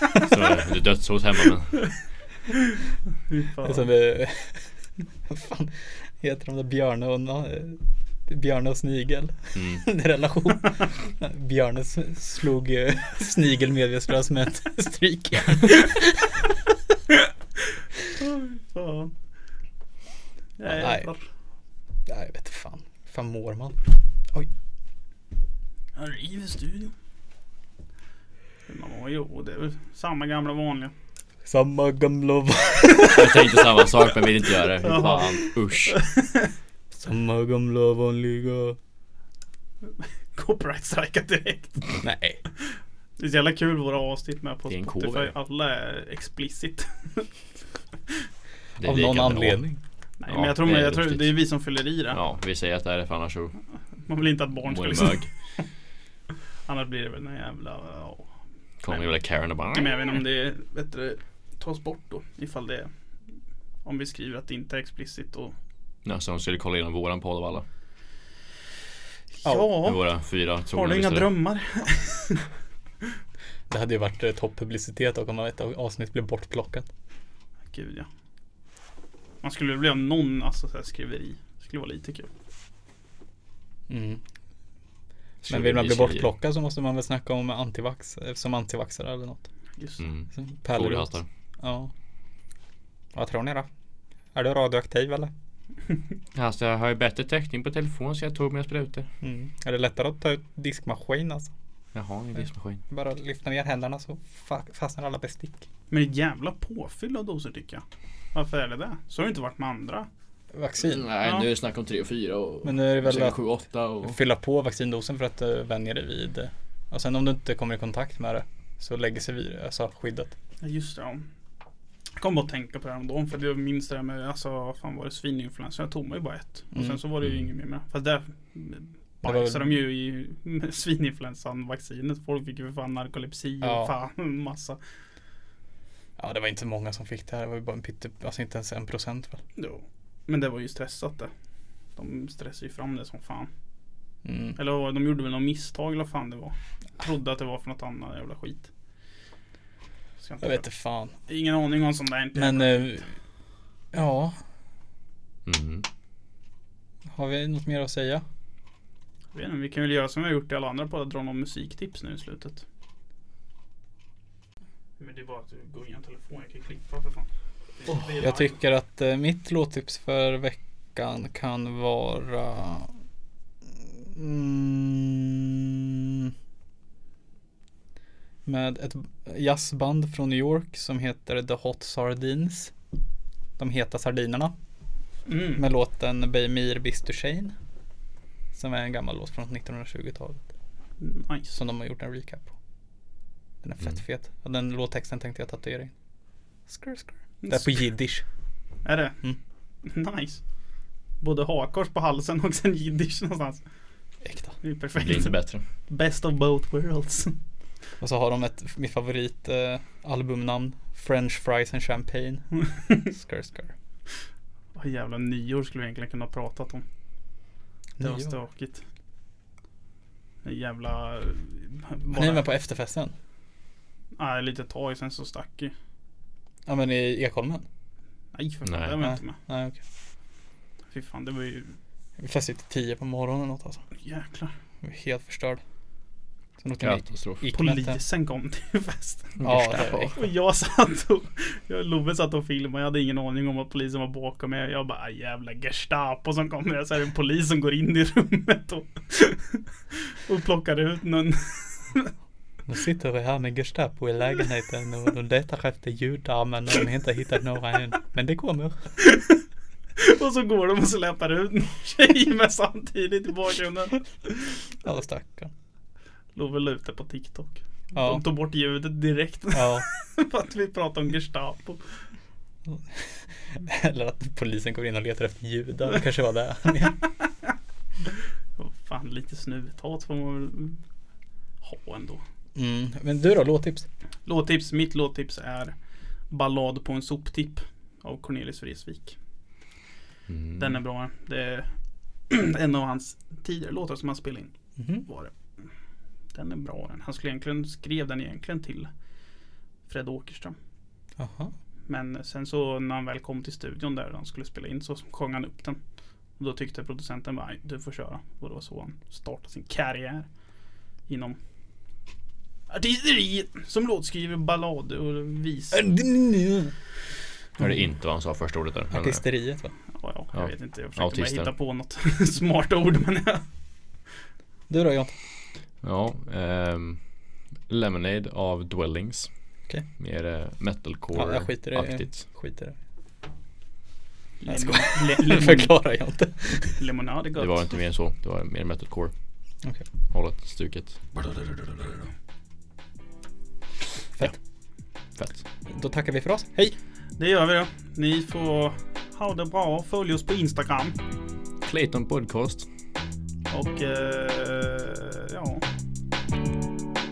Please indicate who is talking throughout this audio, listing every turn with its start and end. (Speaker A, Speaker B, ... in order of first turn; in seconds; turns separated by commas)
Speaker A: 0.2-1.8, Speaker B: 2.5-3.9, Speaker C: 3.6-4.7, Speaker C: 5.2-16.3, Speaker A: 9.5-9.9, Speaker B: 18.2-19.1, Speaker B: 20.6-21.2, Speaker C: 20.7-21.1, Speaker C: 22.1-23.8, Speaker B: 25.9-26.9, Speaker B: 28.7-30.9, Speaker C: 31.4-33.8, Speaker A: 33.1-36.0, Speaker B: 34.8-36.5, Speaker C: 36.9-38.8, Speaker B: 40.0-42.0, Speaker C: 42.0-42.4, Speaker B: 43.2-47.3, Speaker A: 44.7-45.3, Speaker A: 48.8-49.6, Speaker C: 48.8-49.8, Speaker B: 50.2-52.2, Speaker A: 50.3-51.4, Speaker A: 52.1-53.5, Speaker B: 54.1-55.2, Speaker A: 54.6-55.3, Speaker B: 56.7-58.3, Speaker A: 58.8-60.1, Speaker B: 58.9-59.1, Speaker B: 59.7-62.9, Speaker B: 63.8-65.5, Speaker A: 66.0-67.6, Speaker B: 69.4-70.0, Speaker A: 69.8-71.3, Speaker B: 70.7-72.5, Speaker C: 73.7-76.8, Speaker B: 77.7-78.1, Speaker B: 79.4-82.3, Speaker C: 83.9-84.2, Speaker A: 85.4-86.3, Speaker C: 85.5-89.4, Speaker B: 89.8-90.0, Speaker A: 90.0-91.3, Speaker C: 90.4-91.9, Speaker C: 93.1-93.7, Speaker C: 94.3-95.3, Speaker A: 96.3-99.1, Speaker C: 99.2-101.5, Speaker A: 101.9-102.8, Speaker C: 102.9-105.7, Speaker B: 105.9-110.1, Speaker C: 110.5-111.0, Speaker A: 110.8-114.2, Speaker B: 111.2-111.5, Speaker C: 112.6-113.4, Speaker C: 114.0-120.3, Speaker B: 120.6-121.3, Speaker B: 122.2-134.8, Speaker C: 129.2-129.7, Speaker C: 133.6-133.9, Speaker C: 136.2-139.4, Speaker B: 139.6-141.3, Speaker B: 141.9-143.5, Speaker C: 144.2-144.6, Speaker B: 144.6-148.7, Speaker B: 150.2-150.7, Speaker C: 150.4-151.1, Speaker B: 151.3-153.0, Speaker C: 152.3-153.0, Speaker C: 153.9-154.4, Speaker A: 155.4-155.8, Speaker C: 157.1-158.2, Speaker B: 159.3-162.6, Speaker B: 165.0-167.3, Speaker B: 167.8-168.5, Speaker C: 167.9-172.9, Speaker C: 173.8-176.3, Speaker C: 178.4-182.7, Speaker C: 183.6-184.5, Speaker B: 185.3-185.6, Speaker C: 185.6-187.5, Speaker C: 188.5-190.4, Speaker B: 191.0-191.6, Speaker C: 191.5-192.5, Speaker C: 193.6-195.9, Speaker C: 196.7-198.2, Speaker B: 197.4-197.8, Speaker B: 198.8-199.2, Speaker B: 199.8-200.4, Speaker B: 201.2-203.6, Speaker C: 204.2-204.6, Speaker B: 204.6-205.3, Speaker A: 204.9-205.6, Speaker B: 205.9-207.3, Speaker C: 208.0-212.4, Speaker C: 213.0-213.7, Speaker B: 214.7-216.8, Speaker C: 218.0-218.3, Speaker B: 218.0-218.8, Speaker B: 220.4-222.4, Speaker C: 222.1-223.1, Speaker B: 224.2-225.7, Speaker C: 226.7-227.6, Speaker B: 228.3-229.4, Speaker A: 228.7-229.0, Speaker C: 229.0-229.8, Speaker B: 230.9-231.8, Speaker C: 232.2-233.8, Speaker B: 233.9-234.5, Speaker C: 234.8-235.6, Speaker C: 236.6-238.0, Speaker A: 236.8-237.4, Speaker B: 237.5-252.1, Speaker A: 239.4-240.1, Speaker C: 239.4-240.2, Speaker C: 252.7-258.8, Speaker B: 259.0-259.4, Speaker B: 260.0-264.6, Speaker C: 264.8-265.5, Speaker B: 266.4-271.8, Speaker C: 267.9-268.2, Speaker C: 269.5-269.9, Speaker C: 272.7-277.0, Speaker B: 278.6-280.8, Speaker B: 281.6-282.2, Speaker C: 282.6-283.9, Speaker B: 284.2-285.7, Speaker B: 286.3-289.1, Speaker A: 290.3-290.8, Speaker B: 290.6-291.7, Speaker B: 292.3-294.5, Speaker C: 294.8-295.0, Speaker B: 295.0-295.3, Speaker B: 296.3-298.9, Speaker B: 299.9-300.6, Speaker C: 301.2-301.5, Speaker B: 301.9-305.8, Speaker B: 306.4-310.3, Speaker B: 311.1-311.4, Speaker B: 312.7-315.9, Speaker C: 315.7-316.7, Speaker A: 317.6-319.2, Speaker C: 318.9-319.7, Speaker B: 319.9-323.4, Speaker A: 320.3-321.5, Speaker C: 324.7-325.1, Speaker A: 325.8-327.0, Speaker A: 327.7-329.3, Speaker A: 330.0-332.2, Speaker C: 331.1-332.8, Speaker B: 334.4-335.7, Speaker C: 334.5-336.8, Speaker B: 336.8-337.7, Speaker A: 337.4-339.1, Speaker A: 340.1-341.9, Speaker A: 345.1-345.4, Speaker C: 345.7-346.7, Speaker B: 347.2-351.0, Speaker A: 351.6-352.7, Speaker B: 353.5-355.6